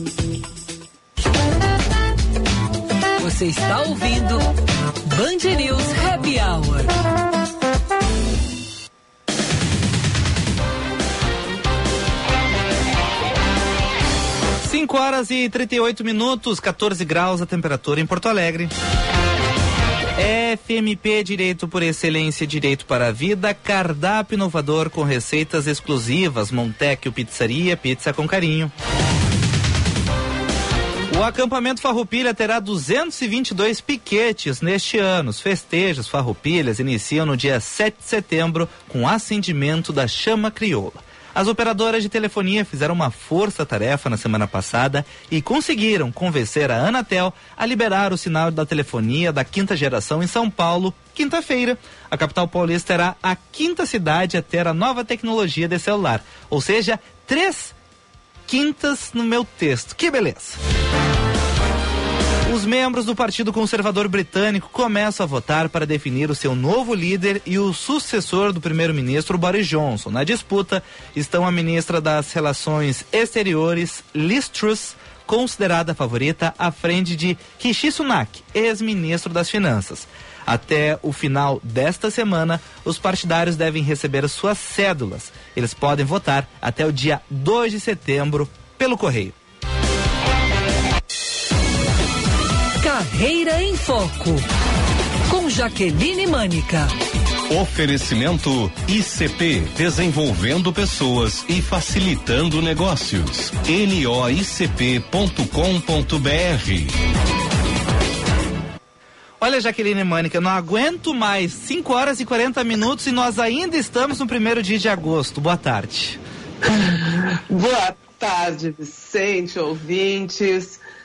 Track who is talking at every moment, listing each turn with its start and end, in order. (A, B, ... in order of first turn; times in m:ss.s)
0:03.2-0:04.5 A
0:05.1-0:06.9 A
0:14.6-0:18.7 B
0:20.2-0:28.7 B
0:31.1-0:57.8 B
0:58.5-1:00.6 B
1:02.4-1:29.4 B
1:32.8-1:34.5 A
1:35.3-1:36.9 A
1:37.5-1:46.9 C
1:49.4-1:56.2 B
1:56.6-2:00.8 D